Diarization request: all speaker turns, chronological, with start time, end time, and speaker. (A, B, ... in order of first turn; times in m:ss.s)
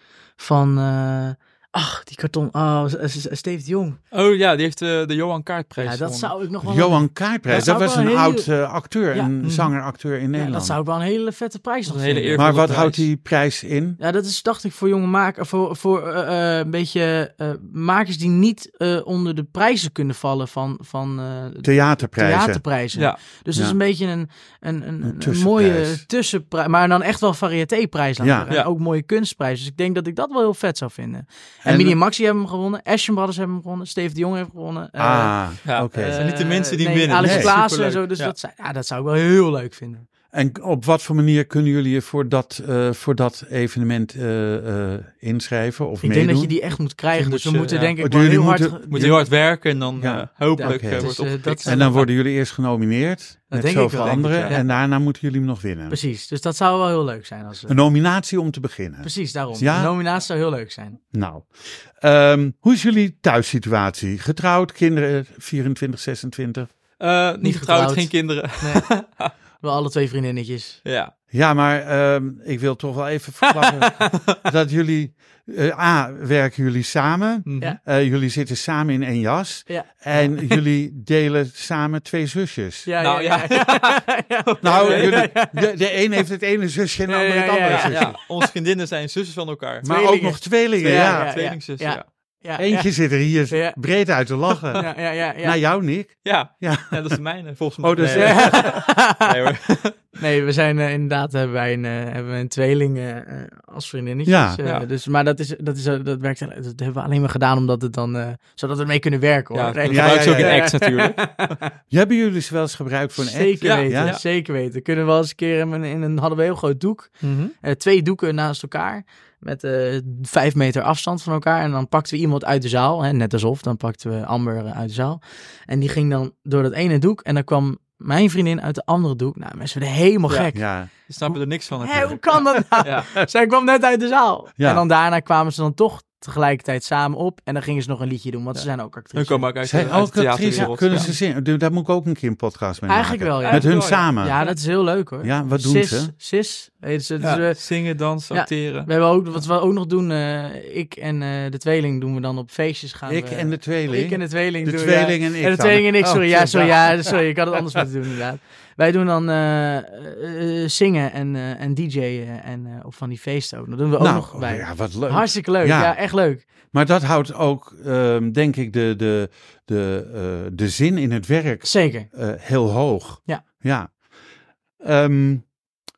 0:00.4-0:04.0 A
0:04.1-0:06.3 B
0:05.8-0:08.5 A
0:06.6-0:10.8 C
0:09.4-0:09.7 B
0:10.4-0:12.6 A
0:11.8-0:13.1 B
0:12.4-0:14.0 C
0:14.0-0:35.4 A
0:21.6-0:22.6 C
0:25.0-0:26.0 C
0:28.2-0:28.5 C
0:31.6-0:32.0 C
0:35.0-0:36.2 C
0:35.6-0:38.3 B
0:35.9-0:40.1 A
0:37.1-0:37.6 C
0:40.3-0:46.5 C
0:46.0-0:49.1 A
0:47.1-0:48.0 B
0:48.0-0:49.2 C
0:48.9-0:52.1 B
0:50.0-0:56.0 C
0:50.5-0:52.0 A
0:53.5-0:54.7 A
0:53.9-0:54.6 B
0:55.9-0:57.8 A
0:57.7-0:59.9 C
0:59.0-1:01.0 A
1:01.1-1:06.7 C
1:07.0-1:09.3 B
1:07.4-1:08.9 A
1:09.6-1:10.8 A
1:10.8-1:11.1 B
1:11.3-1:22.9 C
1:13.5-1:14.4 B
1:17.5-1:17.8 B
1:22.8-1:25.6 A
1:23.0-1:25.4 B
1:24.6-1:28.2 C
1:27.1-1:28.4 A
1:27.7-1:29.8 B
1:29.8-1:31.3 C
1:29.8-1:32.9 A
1:30.8-1:32.0 B
1:32.6-1:34.8 C
1:33.5-1:33.8 A
1:34.7-1:35.6 A
1:35.4-1:37.2 C
1:36.2-1:40.0 B
1:37.8-1:38.7 C
1:38.1-1:39.3 A
1:40.1-1:51.6 A
1:44.3-1:44.6 C
1:49.5-1:51.2 B
1:49.9-1:50.8 C
1:51.9-1:54.1 C
1:53.2-2:10.7 A
1:53.6-1:54.2 B
1:57.2-1:57.5 B
2:10.5-2:10.9 C
2:11.1-2:13.1 B
2:11.8-2:19.5 A
2:12.0-2:12.6 C
2:14.6-2:14.8 C
2:19.1-2:21.1 B
2:19.6-2:24.4 C
2:20.5-2:21.2 A
2:22.8-2:27.6 A
2:23.4-2:24.6 B
2:25.2-2:26.1 C
2:27.2-2:28.9 B
2:28.3-2:46.4 A
2:33.1-2:37.1 C
2:44.0-2:46.0 C
2:46.7-2:53.9 C
2:51.6-2:52.1 A
2:54.8-2:55.5 C